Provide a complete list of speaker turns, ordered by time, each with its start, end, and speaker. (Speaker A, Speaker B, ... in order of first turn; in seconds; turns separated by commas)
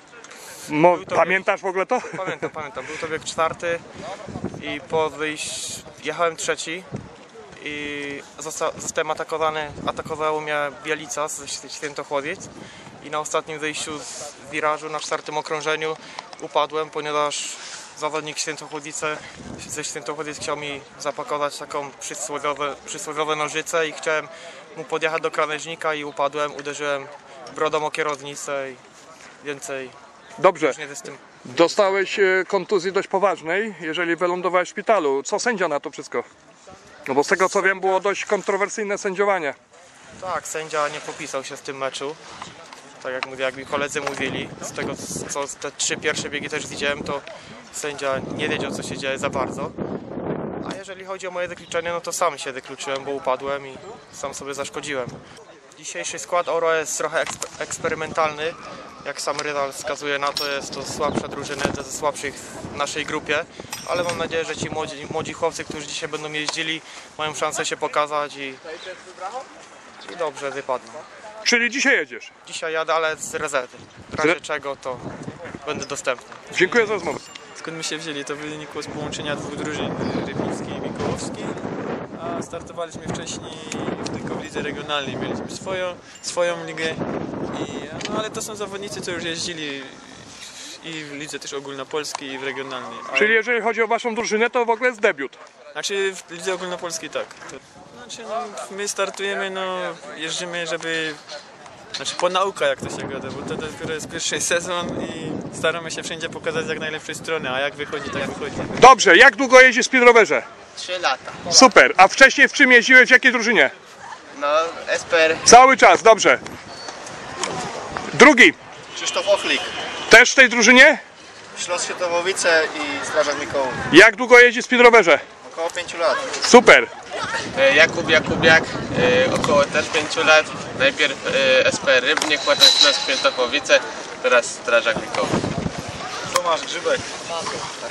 Speaker A: 0.7-2.1, Speaker B: 0.9-3.8, Speaker B: 4.6-6.9, Speaker B: 7.5-28.8, Speaker B: 29.4-30.0, Speaker A: 30.4-30.8, Speaker B: 30.6-32.2, Speaker A: 31.4-36.2, Speaker A: 37.1-39.5, Speaker B: 40.2-42.2, Speaker B: 43.0-49.8, Speaker B: 50.6-55.2, Speaker B: 55.8-68.6, Speaker B: 70.0-71.0, Speaker A: 71.4-72.3, Speaker B: 72.4-75.1, Speaker B: 75.6-76.5, Speaker A: 76.5-77.2, Speaker C: 76.6-77.0, Speaker C: 77.5-81.6, Speaker C: 82.1-93.4, Speaker A: 93.1-95.4, Speaker C: 95.7-101.2, Speaker C: 102.0-108.8, Speaker A: 108.8-110.5, Speaker D: 110.8-111.5, Speaker A: 111.5-113.7, Speaker D: 114.3-115.4, Speaker A: 115.4-116.4, Speaker A: 118.1-118.5, Speaker E: 118.9-119.7, Speaker A: 120.1-121.0, Speaker E: 121.5-123.8, Speaker A: 123.9-125.2, Speaker E: 125.4-126.3, Speaker A: 126.4-126.9, Speaker D: 127.5-135.4